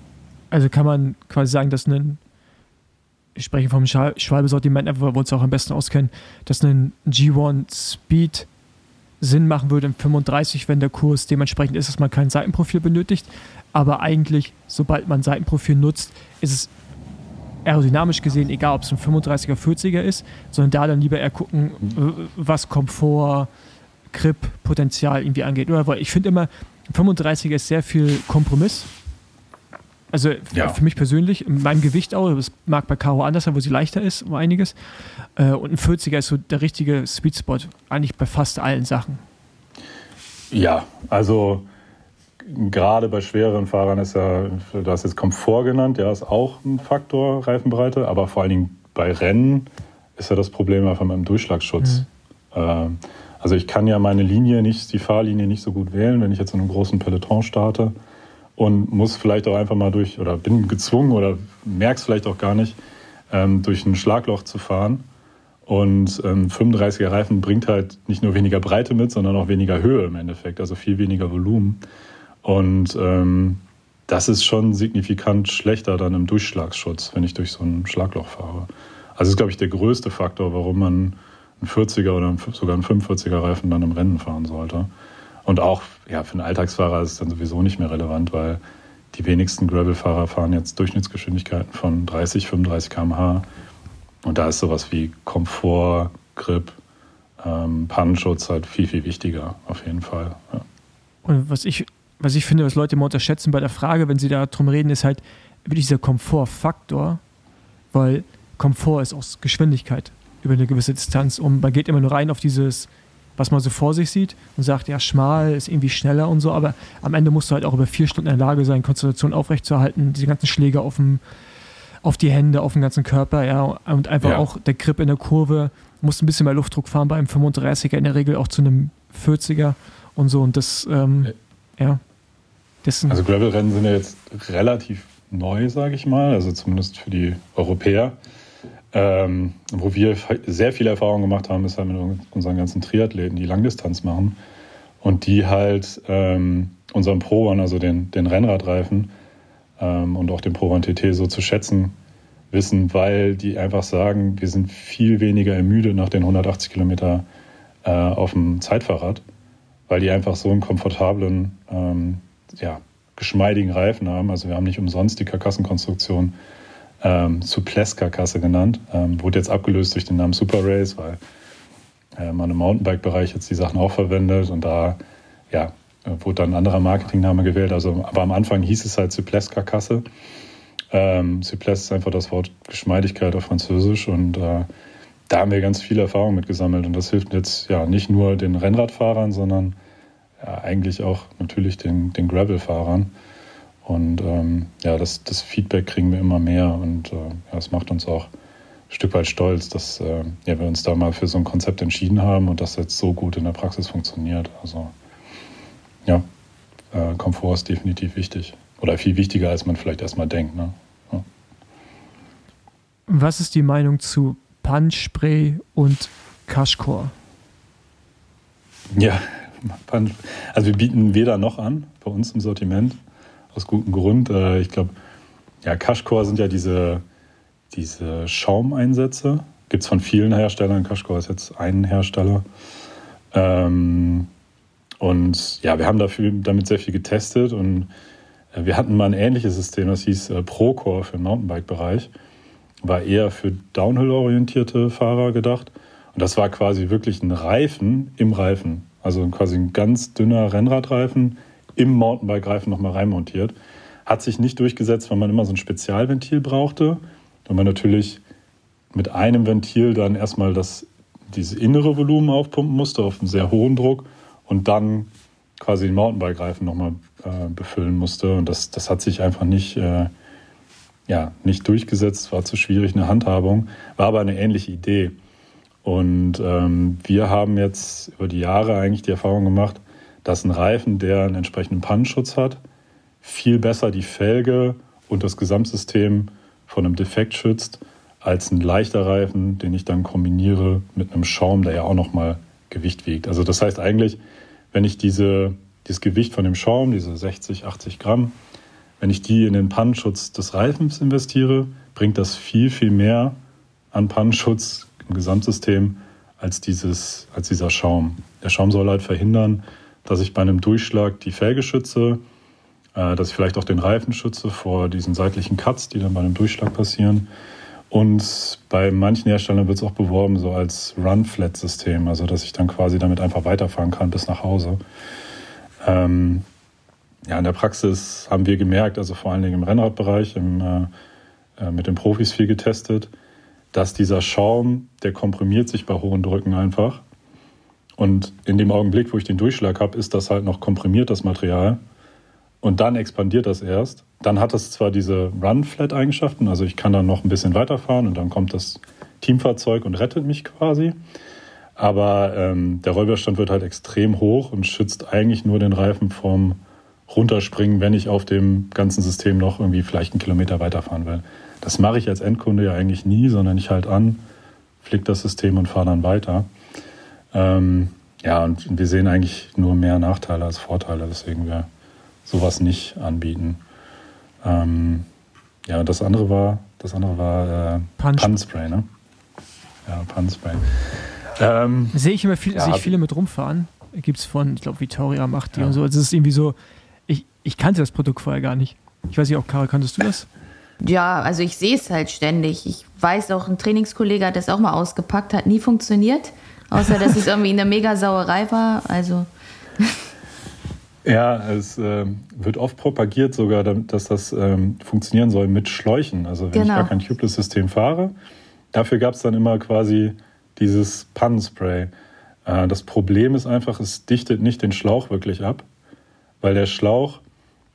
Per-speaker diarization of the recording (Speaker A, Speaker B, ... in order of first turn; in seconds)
Speaker A: 0.5-2.2, 3.4-8.5, 9.2-16.7, 17.6-23.5, 24.1-28.9, 30.1-34.8, 35.4-39.2, 101.2-107.2, 107.9-121.2, 122.0-132.0, 132.8-133.2, 213.1-217.1, 378.0-378.4, 381.9-386.6, 387.1-390.3
Speaker B: 30.5-30.8, 40.5-41.7, 42.4-57.9, 58.5-62.8, 63.3-65.1, 65.7-71.8, 72.4-84.9, 85.4-88.6, 89.1-93.5, 94.2-96.8, 97.4-100.7, 133.1-138.2, 138.9-144.4, 145.0-149.1, 149.8-151.9, 152.5-157.2, 157.8-159.2, 159.9-166.4, 167.0-171.2, 172.2-175.0, 175.5-180.0, 180.9-184.7, 185.3-189.8, 190.4-193.1, 193.8-198.3, 198.9-204.9, 206.9-211.2, 218.9-223.0, 223.5-224.9, 225.6-227.0, 227.7-232.4, 233.3-234.3, 235.0-237.9, 238.5-242.1, 242.8-258.2, 258.9-270.1, 271.1-275.2, 275.8-282.6, 283.2-294.2, 294.7-298.4, 299.0-303.4, 303.9-312.2, 312.9-317.3, 317.9-324.8, 325.8-326.4, 327.2-330.9, 331.6-333.1, 333.7-337.0, 338.0-341.8, 342.6-351.0, 351.8-364.2, 364.8-366.5, 367.3-371.7, 372.2-373.6, 374.4-375.1, 375.6-378.9, 379.9-381.9, 382.5-382.9, 401.0-408.1, 408.7-411.9, 412.4-415.6, 416.4-417.2
Speaker C: 390.8-399.3, 406.5-406.9